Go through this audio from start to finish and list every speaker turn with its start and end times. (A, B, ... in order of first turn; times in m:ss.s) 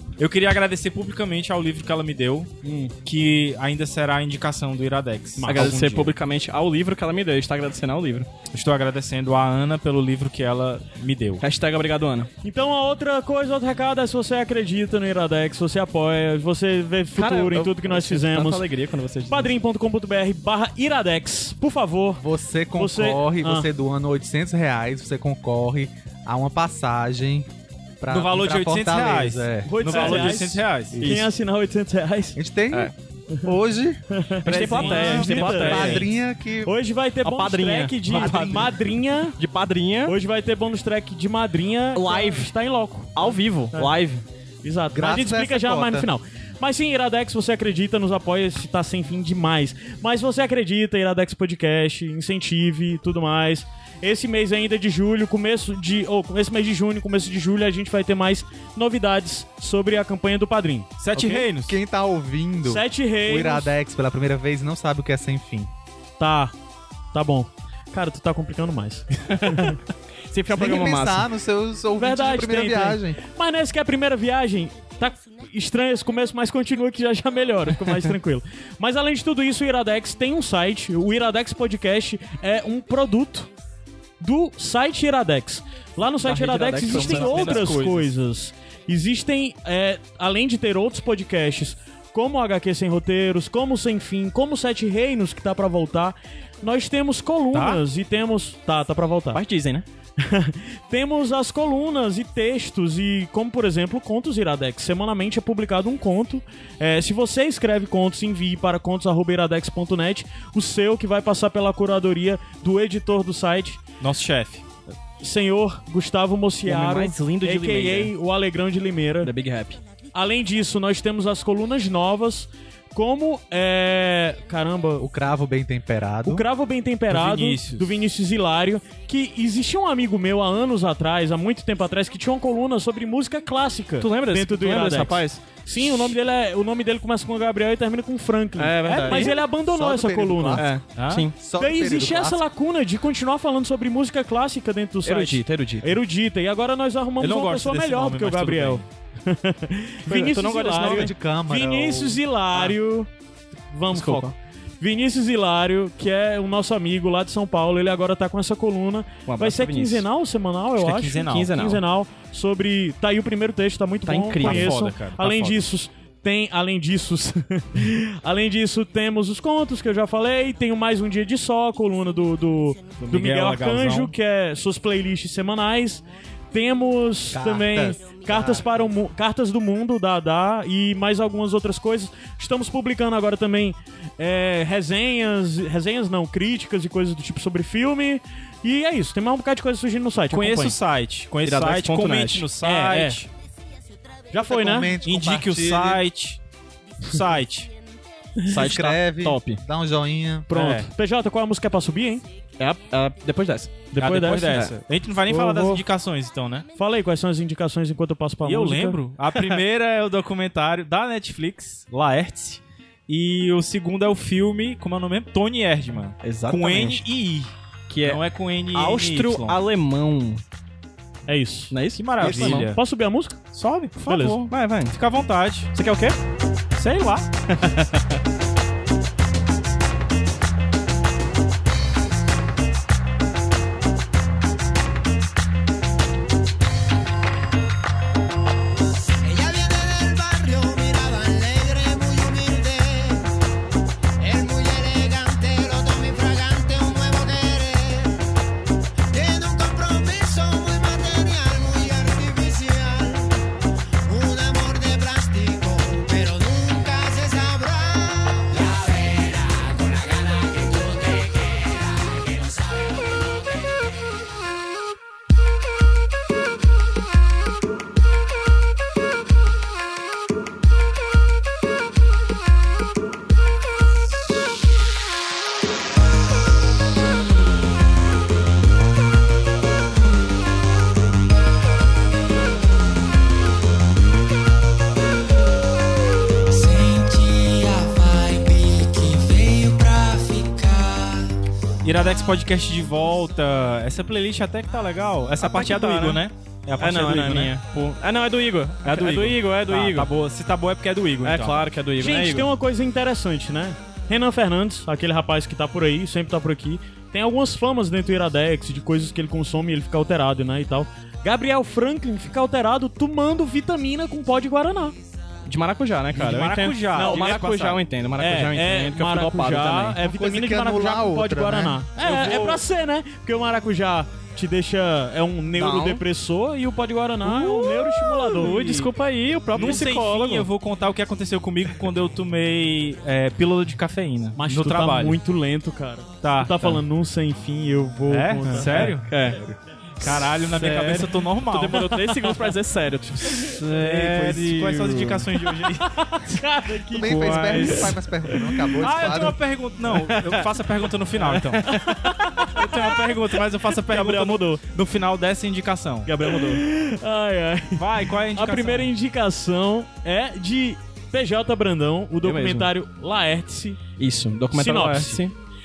0:00.2-0:02.5 A
0:02.6-0:02.9 B
0:03.0-0:06.1 A
0:05.4-0:05.8 B
0:05.5-0:08.3 C
0:08.5-0:11.4 A
0:11.4-0:12.3 C
0:12.4-0:18.6 B
0:17.1-0:19.5 C
0:19.3-0:22.2 B
0:22.2-0:27.5 D
0:22.7-0:23.7 B
0:28.0-0:29.7 D
0:28.1-0:31.0 A
0:29.7-0:32.4 B
0:29.9-0:30.4 C
0:31.0-0:31.3 C
0:32.4-0:34.0 D
0:34.1-0:36.0 B
0:34.4-0:36.1 C
0:34.4-0:35.9 A
0:35.4-0:36.7 D
0:36.6-0:39.4 B
0:37.2-0:38.8 C
0:38.2-0:38.7 D
0:39.4-0:40.1 C
0:40.0-0:43.9 B
0:41.9-0:42.5 C
0:43.1-0:44.2 C
0:44.6-1:00.9 B
0:44.9-0:46.1 D
1:01.0-1:01.7 A
1:01.1-1:05.7 D
1:02.6-1:03.7 B
1:06.2-1:06.5 B
1:07.1-1:09.8 B
1:09.3-1:09.8 C
1:10.3-1:11.3 C
1:10.6-1:13.2 D
1:12.0-1:23.5 B
1:24.2-1:39.4 B
1:26.2-1:27.9 C
1:26.9-1:28.1 A
1:37.5-1:37.8 A
1:39.3-1:39.8 C
1:40.2-1:53.8 B
1:54.0-1:54.6 A
1:55.2-1:59.3 B
1:56.6-1:58.1 C
1:59.2-1:59.8 C
2:00.1-2:05.1 B
2:05.0-2:06.4 D
2:06.2-2:20.6 B
2:07.1-2:07.9 A
2:14.0-2:16.1 C
2:18.6-2:19.3 C
2:19.2-2:20.7 D
2:20.5-2:21.3 C
2:21.0-2:21.3 A
2:21.4-2:22.4 D
2:21.6-2:33.1 B
2:25.0-2:26.0 C
2:27.2-2:28.8 A
2:30.1-2:31.1 C
2:30.8-2:32.2 D
2:33.7-3:10.8 B
2:33.9-2:34.3 C
2:39.3-2:40.0 C
2:40.8-2:41.5 A
2:41.2-2:41.8 C
2:44.0-2:44.9 C
2:44.4-2:45.6 A
2:53.0-2:54.1 A
2:57.3-2:58.6 D
3:10.3-3:13.3 A
3:11.4-3:12.5 C
3:12.6-3:13.2 B
3:14.3-3:14.9 B
3:14.4-3:16.0 D
3:15.0-3:16.4 A
3:17.0-3:17.7 A
3:18.5-3:19.6 C
3:18.5-3:20.5 D
3:20.5-3:22.2 B
3:20.5-3:20.9 A
3:22.6-3:23.9 C
3:23.9-3:24.7 B
3:24.0-3:26.6 A
3:24.5-3:24.7 C
3:25.3-3:25.8 B
3:26.8-3:29.0 B
3:28.4-3:37.5 A
3:29.3-3:29.6 C
3:36.2-3:37.0 C
3:37.9-3:40.4 C
3:38.0-3:39.6 A
3:41.3-3:43.4 B
3:41.7-3:42.7 C
3:42.0-3:42.8 A
3:43.5-3:45.0 C
3:44.0-3:44.4 A
3:44.9-3:45.7 A
3:45.7-3:46.2 C
3:46.8-3:47.2 A
3:47.5-3:48.1 C
3:59.2-4:03.3 E
4:04.2-4:08.2 E
4:09.1-4:13.3 E
4:14.0-4:18.8 E
4:51.8-4:57.5 A
4:55.4-4:56.2 C
4:56.8-5:00.1 C
4:58.8-5:01.6 A
5:01.2-5:02.5 C
5:02.0-5:15.0 B
5:15.4-5:20.0 C
5:16.1-5:17.8 A
5:16.9-5:17.4 B
5:18.2-5:28.8 B
5:20.0-5:21.8 D
5:22.0-5:22.6 C
5:22.1-5:22.4 A
5:25.6-5:26.0 C
5:27.2-5:30.5 C
5:28.3-5:28.8 A
5:29.5-5:35.2 A
5:34.4-5:39.0 B
5:36.2-5:36.8 A
5:38.1-5:39.4 A
5:38.5-5:39.4 C
5:40.0-5:45.3 C
5:40.0-5:42.0 A
5:43.3-5:46.2 A
5:45.8-5:48.4 B
5:46.9-5:49.4 D
5:47.0-5:48.0 C
5:48.8-5:51.8 A
5:49.9-5:50.5 C
5:51.3-5:52.1 C
5:51.7-5:53.0 B
5:52.5-5:56.6 A
5:53.9-5:54.6 B
5:56.1-6:03.8 B
5:57.8-5:58.9 A
6:02.2-6:02.7 C
6:04.0-6:05.3 C
6:04.5-6:05.2 B